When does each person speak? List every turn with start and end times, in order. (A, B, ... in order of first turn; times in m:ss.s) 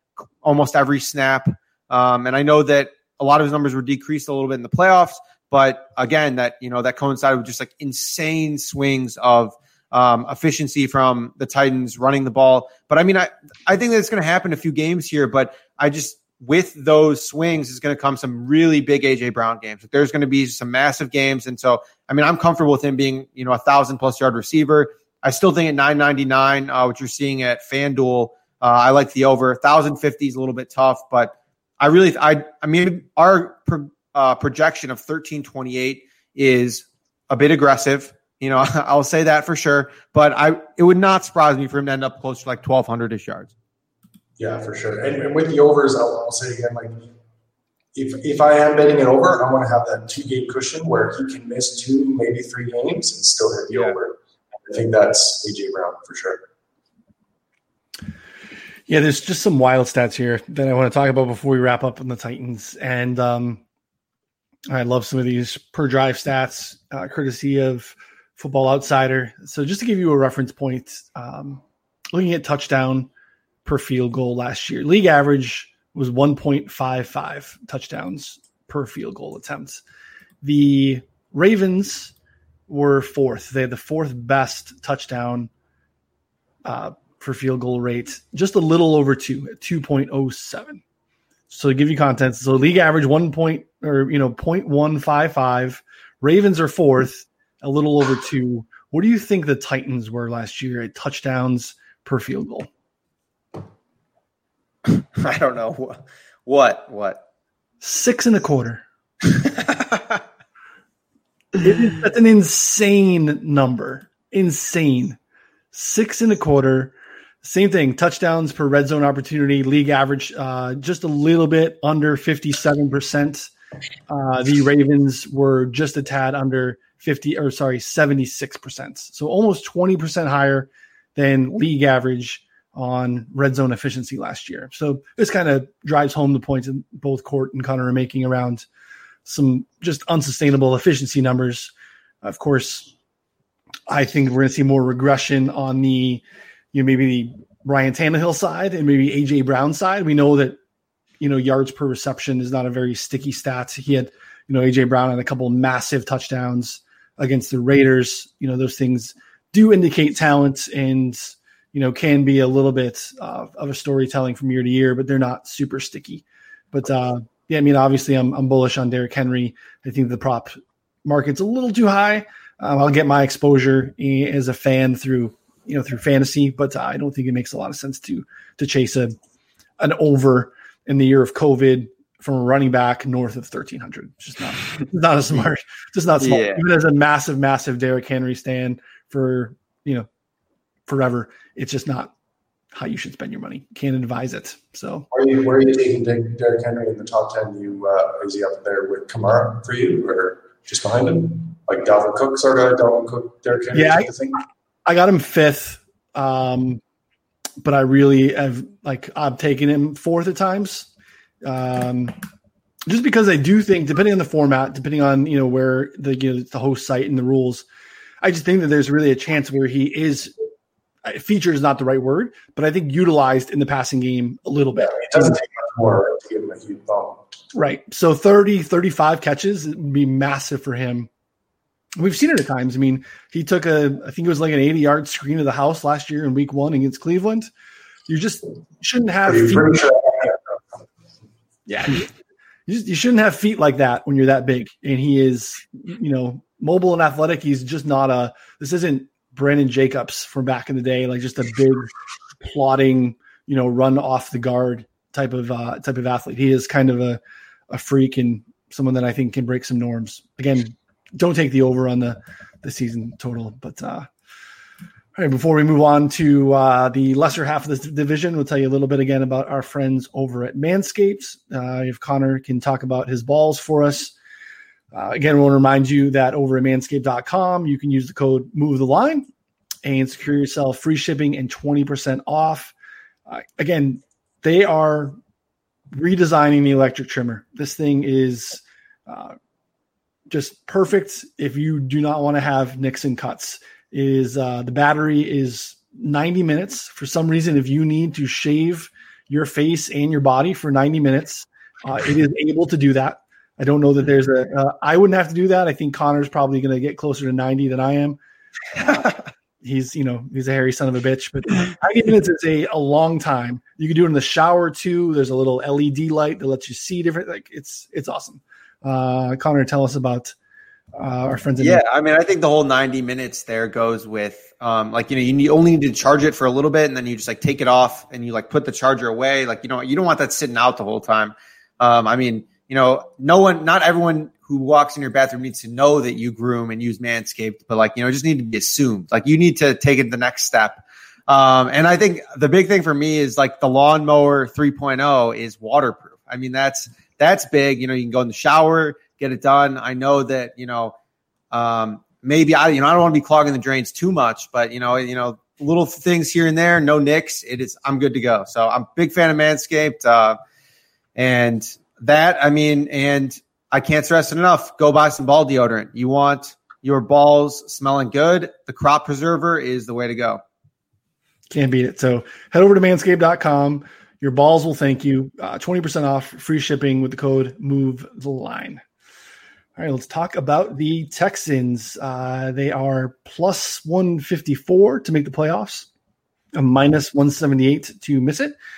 0:00.4-0:43.5 A
0:44.4-0:47.1 B
0:48.0-0:56.4 B
0:58.9-1:03.6 C
1:04.7-1:13.1 C
1:13.6-1:19.8 C
1:20.4-1:22.1 C
1:22.7-1:25.5 C
1:26.6-1:30.8 C
1:31.5-1:42.7 C
1:44.9-1:47.2 A
1:47.8-1:48.8 C
1:49.4-1:50.2 A
1:51.6-1:55.2 C
1:55.7-2:03.5 C
2:04.1-2:18.7 C
2:19.2-2:21.7 C
2:22.2-2:22.9 C
2:23.9-2:26.2 C
2:26.7-2:30.6 C
2:31.2-2:59.2 C
2:59.8-3:10.1 C
3:06.2-3:06.6 A
3:10.9-3:12.1 C
3:12.8-3:15.1 C
3:15.1-3:24.4 B
3:23.7-3:24.1 C
3:24.9-3:26.8 C
3:27.6-3:30.9 C
3:31.4-3:32.2 C
3:32.9-3:37.6 C
3:38.2-3:40.3 C
3:41.0-3:45.4 C
3:44.9-3:47.2 B
3:47.5-3:51.1 C
3:52.0-3:57.5 C
3:58.1-3:59.9 C
3:59.3-4:00.5 B
4:01.7-4:02.1 C
4:02.7-4:17.2 C
4:17.7-4:24.1 C
4:25.2-4:34.1 C
4:34.9-4:39.3 C
4:39.8-4:42.7 C
4:43.3-4:45.2 C
4:45.9-4:49.4 C
4:50.3-5:08.2 C
5:09.6-5:20.3 C
5:21.0-5:21.8 C
5:21.6-5:51.0 A
5:51.5-6:00.4 A
6:01.2-6:10.4 A
6:11.5-6:18.8 C
6:19.8-6:25.9 C
6:26.5-6:28.5 C